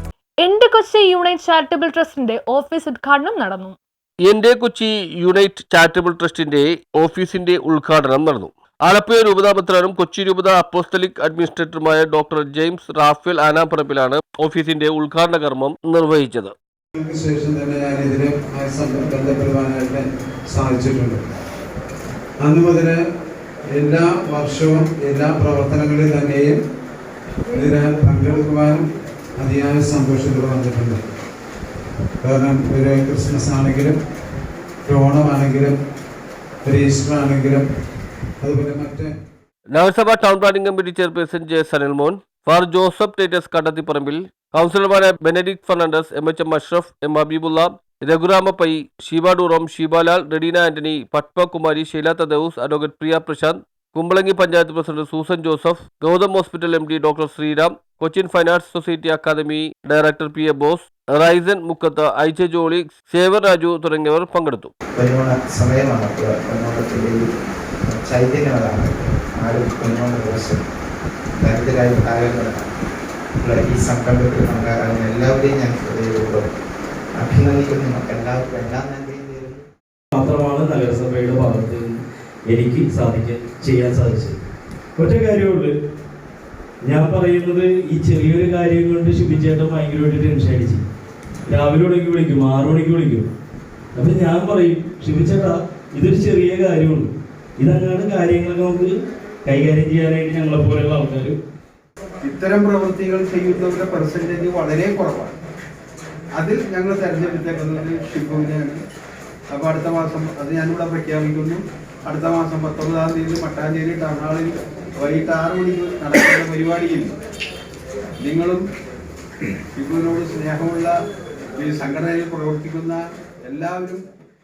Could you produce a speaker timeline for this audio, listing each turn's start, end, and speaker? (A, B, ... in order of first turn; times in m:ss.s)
0:00.4-0:03.8 A
0:04.2-0:16.5 B
0:17.0-0:21.2 C
0:22.4-0:23.0 C
0:23.8-0:26.6 C
0:27.5-0:31.0 C
0:32.2-0:34.0 C
0:34.9-0:35.8 C
0:36.7-0:37.7 C
0:38.4-0:39.1 C
0:39.7-1:04.7 B
1:05.0-1:07.2 D
1:07.9-1:10.6 D
1:11.4-1:12.7 D
1:13.4-1:16.5 D
1:17.2-1:19.6 D
1:20.1-1:24.4 E
1:25.0-1:25.7 E
1:26.8-1:30.8 E
1:31.5-1:33.3 E
1:34.0-1:38.9 E
1:39.4-1:41.4 E
1:42.2-1:45.3 F
1:46.4-1:48.8 F
1:49.5-1:57.1 F
1:58.2-1:58.6 F
1:59.8-2:00.9 F
2:01.6-2:03.0 F
2:03.5-2:04.0 F